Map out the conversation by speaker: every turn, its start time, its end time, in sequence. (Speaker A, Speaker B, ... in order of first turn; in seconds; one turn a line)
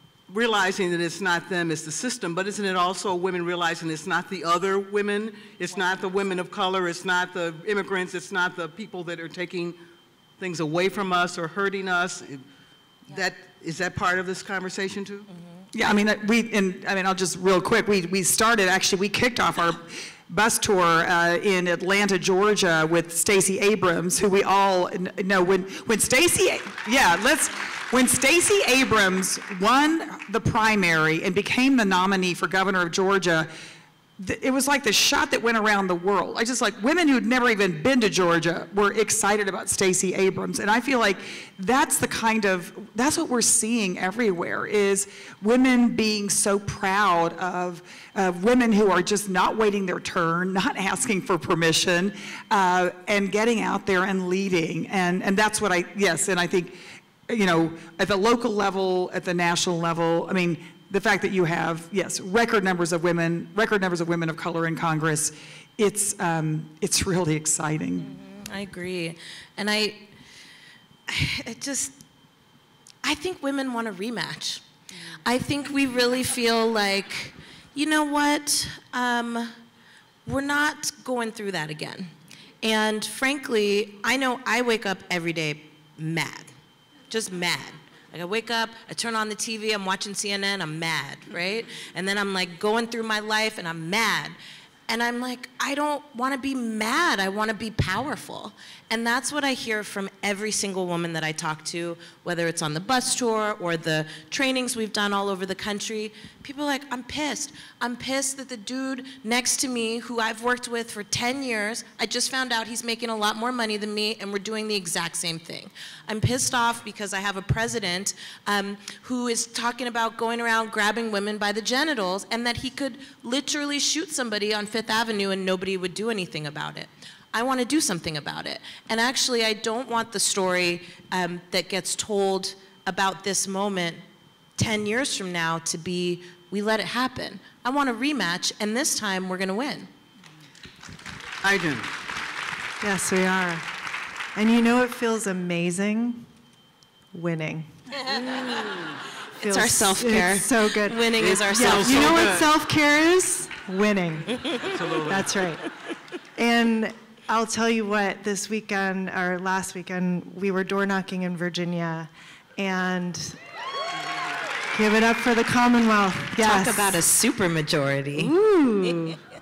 Speaker A: 0.3-9.8
Speaker A: 10.4-12.4
Speaker A: 13.1-15.3
Speaker B: 15.7-33.5
Speaker B: 34.2-68.1
Speaker C: 68.0-70.1
Speaker C: 71.1-72.0
Speaker C: 73.0-74.6
Speaker C: 75.2-79.5
Speaker C: 80.2-82.1
Speaker C: 82.6-86.5
Speaker C: 87.1-94.3
Speaker C: 94.9-134.0
Speaker C: 134.6-139.9
Speaker A: 141.4-141.9
Speaker D: 142.8-143.7
Speaker D: 144.3-146.3
Speaker D: 147.1-147.7
Speaker C: 148.1-148.6
Speaker D: 149.4-155.6
Speaker C: 149.4-152.2
Speaker A: 151.2-152.5
Speaker A: 154.7-155.5
Speaker D: 156.3-163.4
Speaker D: 164.7-167.0
Speaker C: 166.3-168.3
Speaker D: 168.2-169.2